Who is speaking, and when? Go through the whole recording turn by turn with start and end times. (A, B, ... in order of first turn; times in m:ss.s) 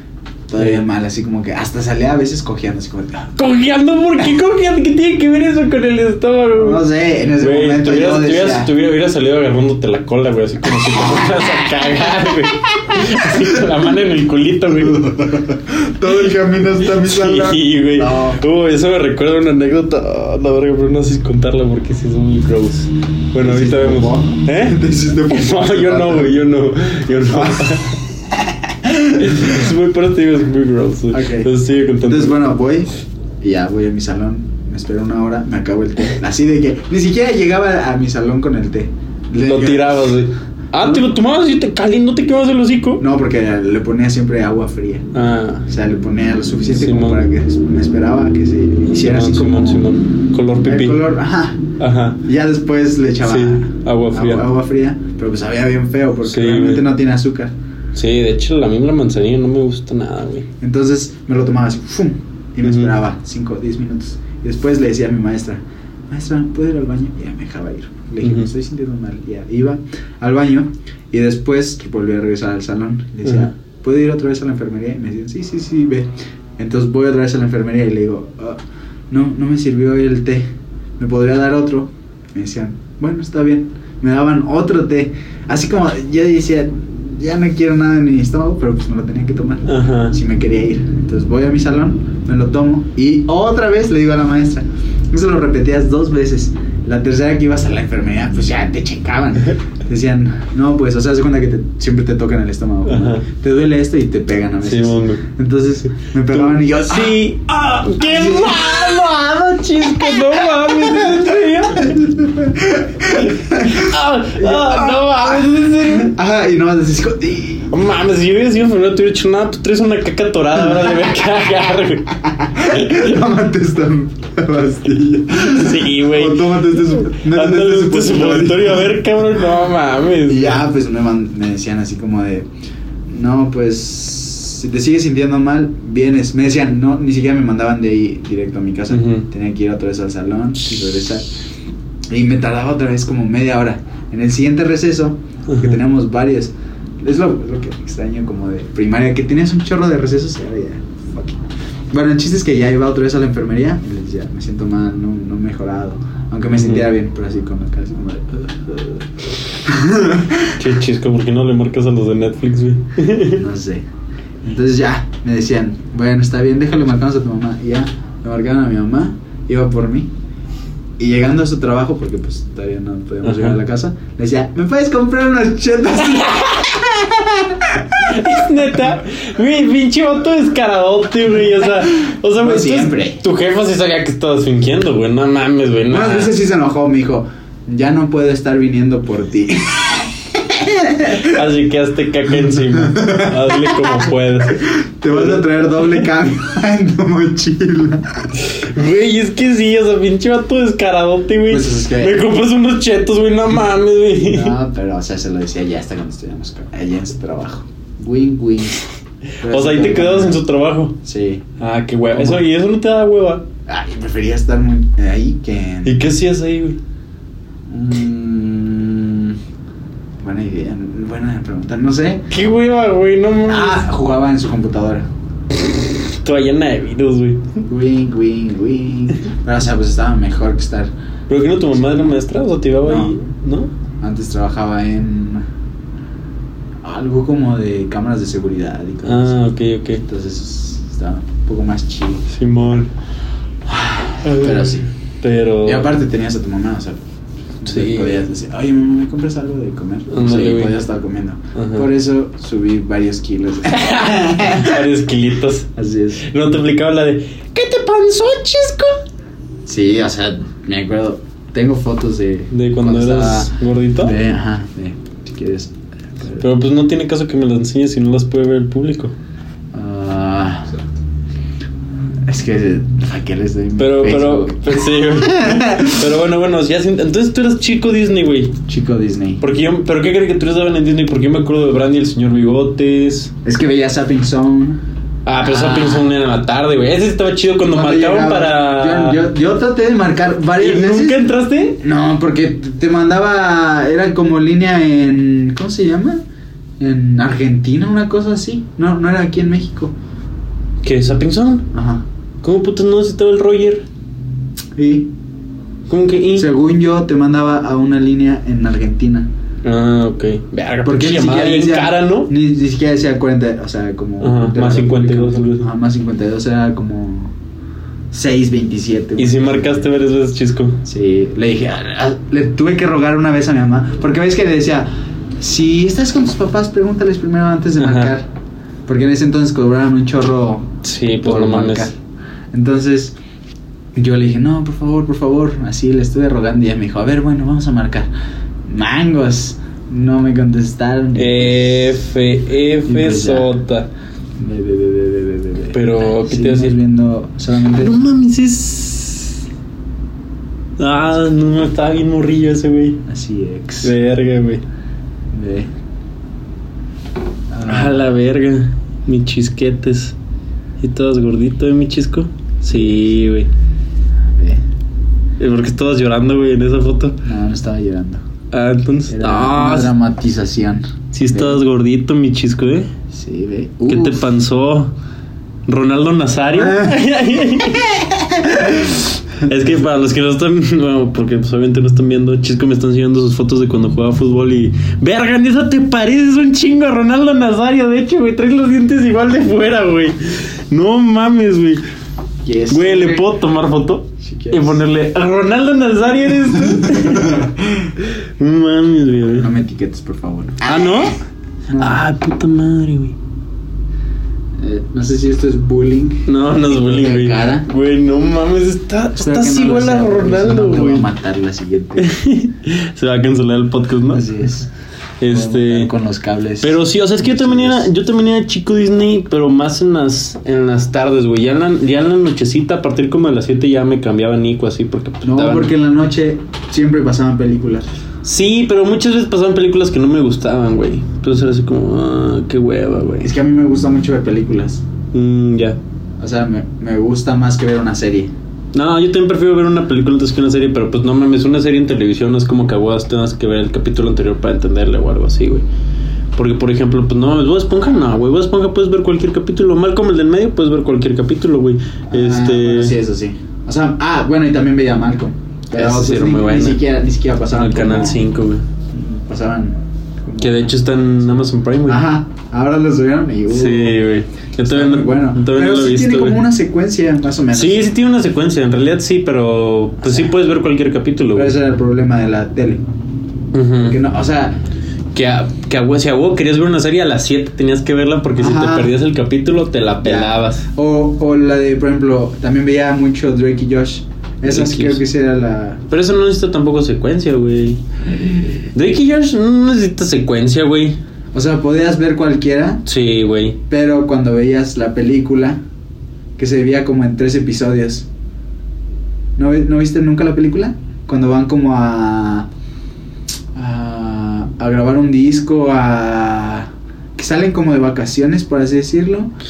0:00.5-0:03.3 A
0:03.4-0:06.8 B
0:06.6-0:08.7 A
0:07.4-0:15.2 B
0:13.0-0:13.6 A
0:14.7-0:18.4 A
0:16.8-0:28.0 B
0:23.4-0:26.4 A
0:27.3-0:29.7 A
0:29.1-0:32.4 B
0:31.1-0:40.2 A
0:39.4-0:43.0 B
0:43.0-0:45.1 A
0:45.1-0:45.7 B
0:45.7-0:49.8 A
0:46.7-0:47.2 B
0:48.9-0:51.0 B
0:50.6-0:51.6 A
0:51.8-0:52.2 B
0:52.2-0:57.5 A
0:53.2-0:54.5 B
0:56.2-0:56.8 B
0:57.9-1:00.5 B
1:00.6-1:47.2 A
1:02.6-1:03.0 B
1:08.2-1:08.5 B
1:29.6-1:30.2 B
1:42.8-1:43.2 B
1:44.6-1:45.2 B
1:46.3-1:52.0 B
1:48.0-1:49.2 A
1:49.9-1:57.7 A
1:53.0-1:56.1 B
1:57.7-2:03.2 B
2:02.2-2:09.0 A
2:05.4-2:10.6 B
2:10.2-2:12.5 A
2:13.1-2:21.2 A
2:18.9-2:19.3 B
2:22.1-2:40.6 A
2:25.5-2:25.8 B
2:36.6-2:36.9 B
2:40.6-2:43.4 B
2:43.3-2:43.8 A
2:44.4-2:50.1 A
2:51.0-2:58.5 A
2:53.2-2:53.6 B
2:58.0-3:06.3 B
3:02.4-3:03.2 A
3:05.9-3:11.4 A
3:11.1-3:15.4 B
3:12.7-3:13.9 A
3:14.6-3:18.3 A
3:18.4-3:24.6 B
3:21.5-3:22.3 A
3:24.2-3:28.8 A
3:29.4-3:30.4 A
3:29.4-3:31.0 B
3:31.0-3:31.4 A
3:31.6-3:33.4 B
3:32.1-3:32.5 A
3:33.7-3:36.0 A
3:35.8-3:36.8 B
3:37.7-3:39.4 A
3:40.2-3:42.2 A
3:42.3-3:43.8 B
3:43.4-3:45.0 A
3:46.2-3:47.5 B
3:47.7-3:50.9 A
3:51.3-3:53.7 B
3:52.8-3:53.1 A
3:54.0-3:55.4 A
3:56.8-3:59.4 A
3:59.0-4:00.0 B
4:00.0-4:02.2 A
4:02.3-4:02.9 B
4:03.6-4:04.8 A
4:04.2-4:05.9 B
4:05.6-4:07.0 A
4:07.6-4:14.9 A
4:07.7-4:08.2 B
4:10.1-4:10.8 B
4:11.5-4:11.9 B
4:13.7-4:19.0 B
4:15.8-4:16.2 A
4:19.6-4:26.4 A
4:22.5-4:24.2 B
4:26.4-4:29.1 B
4:29.7-4:30.7 A
4:32.2-4:36.1 A
4:33.8-4:38.6 B
4:38.7-4:39.4 A
4:39.4-4:43.3 B
4:43.4-4:44.8 A
4:45.2-4:49.2 B
4:45.4-4:46.1 A
4:47.7-4:56.2 A
4:50.6-4:51.8 B
4:56.8-4:59.9 A
5:00.8-5:01.6 B
5:01.7-5:02.0 A
5:02.4-5:03.8 B
5:04.8-5:05.1 A
5:05.9-5:06.5 B
5:06.3-5:09.3 A
5:09.6-5:12.3 B
5:10.8-5:17.3 A
5:14.2-5:15.7 B
5:18.1-5:19.9 A
5:19.2-5:20.8 B
5:20.8-5:28.3 A
5:27.8-5:28.1 B
5:28.8-5:31.9 A
5:30.8-5:31.9 B
5:32.5-5:33.2 A
5:33.9-5:38.1 A
5:38.6-5:42.0 A
5:41.2-5:43.9 B
5:42.8-5:43.5 A
5:44.4-5:48.0 A
5:45.7-5:46.8 B
5:47.8-5:49.4 B
5:50.8-5:53.0 B
5:53.1-5:53.9 A
5:53.8-5:54.6 B
5:55.3-5:55.7 A
5:57.5-5:58.1 A
5:57.6-6:00.2 B
6:00.8-6:03.5 B
6:04.4-6:04.6 A
6:05.4-6:07.2 B
6:07.2-6:08.2 A
6:08.5-6:09.9 B
6:09.1-6:11.6 A
6:11.1-6:12.9 B
6:13.1-6:14.2 A
6:13.9-6:14.9 B
6:15.7-6:17.9 B
6:16.5-6:17.0 A
6:17.6-6:19.0 A
6:18.6-6:31.8 B
6:32.4-6:33.3 A
6:32.7-6:37.5 B
6:34.2-6:34.8 A
6:36.7-6:37.9 A
6:38.0-6:39.5 B
6:39.3-6:41.1 A
6:40.6-6:41.2 B
6:41.7-6:42.0 A
6:41.7-6:43.2 B
6:44.6-6:47.7 A
6:46.2-6:51.1 B
6:49.2-6:52.1 A
6:52.0-6:54.3 B
6:54.1-6:54.7 A
6:55.2-6:55.9 B
6:55.3-6:57.9 A
6:56.6-7:05.7 B
7:05.2-7:07.9 A
7:08.2-7:13.3 B
7:13.2-7:14.8 A
7:15.1-7:15.8 B
7:16.2-7:18.3 A
7:18.7-7:25.6 B
7:26.3-7:32.9 B
7:32.1-7:38.2 A
7:35.7-7:36.8 B
7:37.5-7:38.6 B
7:38.9-7:40.8 A
7:40.4-7:42.0 B
7:41.9-7:44.0 A
7:43.5-7:46.4 B
7:44.6-7:47.9 A
7:47.5-7:51.5 B
7:50.0-7:50.3 A
7:51.3-7:52.8 A
7:53.5-7:54.0 B
7:53.8-7:54.6 A
7:55.1-8:00.6 B
7:58.4-7:59.0 A
8:00.0-8:05.8 A
8:04.4-8:05.0 B
8:05.9-8:08.0 B
8:08.0-8:08.6 A
8:08.6-8:11.0 B
8:11.3-8:12.8 A
8:12.8-8:13.6 B
8:13.7-8:15.6 A
8:16.4-8:18.1 A
8:19.4-8:22.5 A
8:23.5-8:29.3 A